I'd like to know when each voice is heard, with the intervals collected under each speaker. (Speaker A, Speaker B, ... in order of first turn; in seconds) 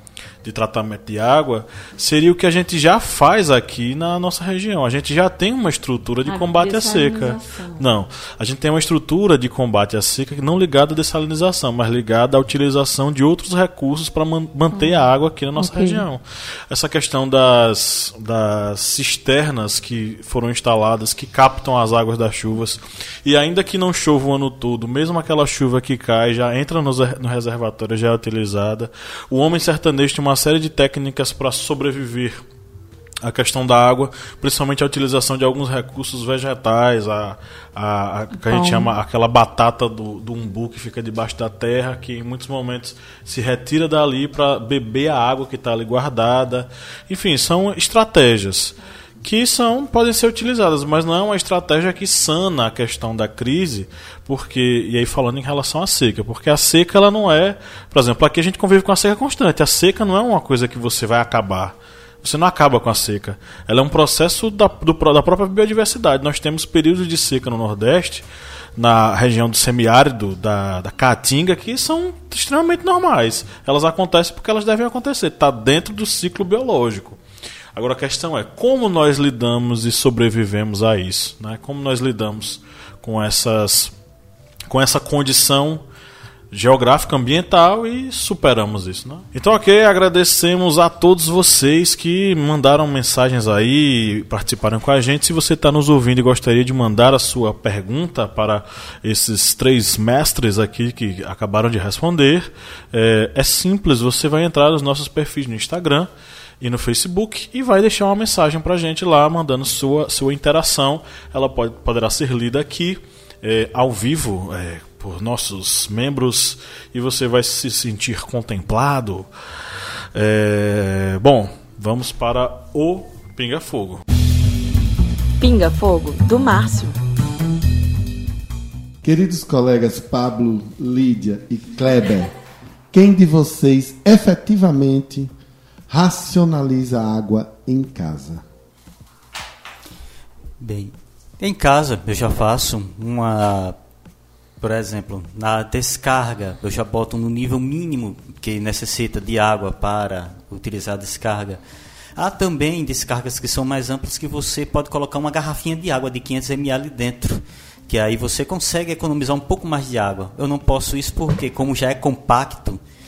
Speaker A: 0.4-32.4, 33.2-68.2, 68.8-77.2, 77.7-83.9, 84.7-85.8, 86.5-106.1, 106.6-119.3, 120.1-124.0
Speaker B: 6.2-7.9, 14.7-15.0, 15.5-16.0, 38.4-38.9, 125.4-126.9
Speaker C: 129.0-132.3, 132.9-135.3, 135.9-138.4
Speaker D: 140.6-143.8, 144.6-151.6, 152.2-162.8